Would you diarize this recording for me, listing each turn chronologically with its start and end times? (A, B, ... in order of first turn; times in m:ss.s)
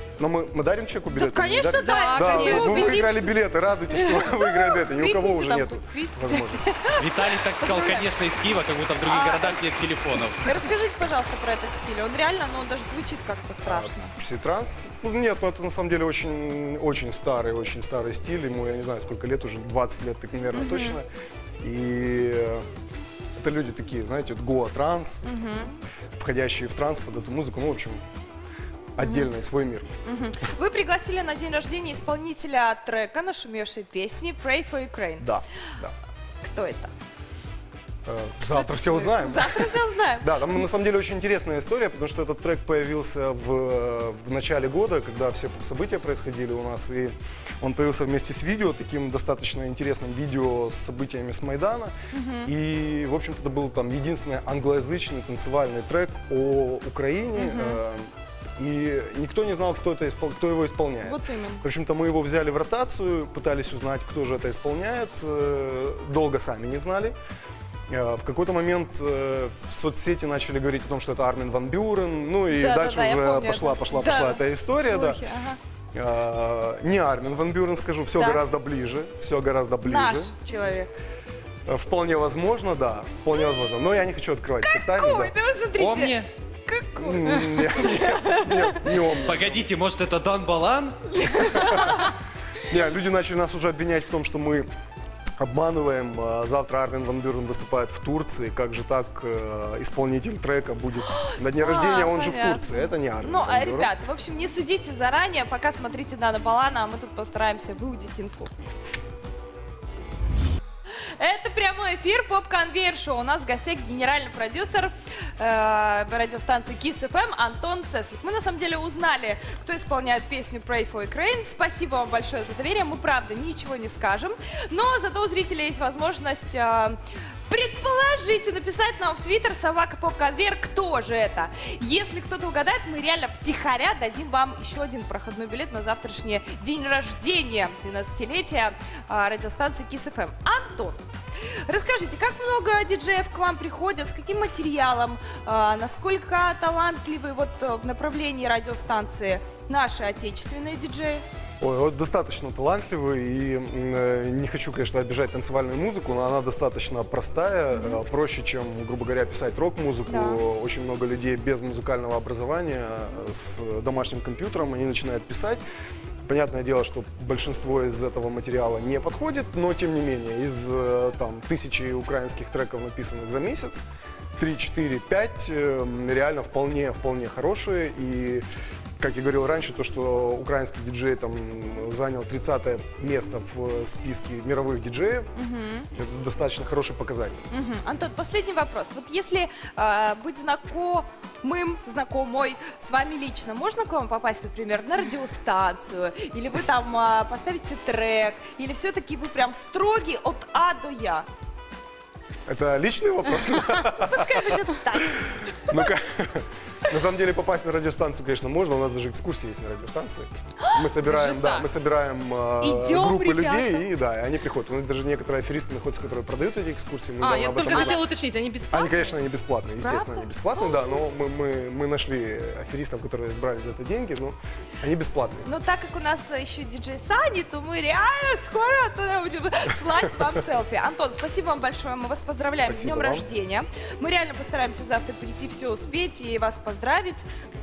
0:00.2-0:06.7 A
0:01.1-0:03.3 B
0:01.7-0:03.0 C
0:03.9-0:08.1 B
0:07.0-0:10.6 D
0:09.0-0:09.7 B
0:10.4-0:14.1 B
0:13.6-0:21.1 A
0:20.5-0:21.0 B
0:21.6-0:22.6 A
0:23.4-0:25.3 A
0:25.2-0:25.8 B
0:26.2-0:28.0 A
0:29.0-0:29.9 A
0:29.0-0:29.3 B
0:30.0-0:35.3 B
0:35.2-0:35.9 A
0:36.4-0:36.9 B
0:38.0-0:51.9 A
0:38.5-0:40.4 B
0:52.1-0:52.5 B
0:52.4-1:07.1 A
0:57.3-0:57.8 B
1:01.0-1:01.6 B
1:07.9-1:15.2 A
1:12.5-1:15.6 B
1:15.9-1:20.4 A
1:18.2-1:18.4 B
1:19.8-1:20.9 B
1:21.6-1:25.3 A
1:24.6-1:28.9 B
1:25.8-1:26.3 D
1:27.0-1:29.7 A
1:29.2-1:31.0 D
1:31.2-1:32.1 B
1:32.7-1:34.7 A
1:35.4-1:43.9 A
1:41.1-1:48.5 B
1:50.9-2:21.0 B
2:21.7-2:31.2 B
2:31.6-2:45.6 A
2:37.7-2:38.0 B
2:40.1-2:40.4 B
2:46.2-2:53.8 A
2:54.4-2:58.4 A
2:59.0-3:05.3 A
3:05.4-3:05.9 B
3:05.9-3:07.5 A
3:07.5-3:21.3 B
3:22.5-3:38.0 A
3:23.4-3:25.9 B
3:31.0-3:31.6 C
3:32.6-3:33.9 B
3:37.2-3:39.1 C
3:37.6-3:38.0 B
3:38.7-3:45.5 A
3:39.8-3:40.8 B
3:45.4-3:57.2 B
3:52.6-3:53.3 A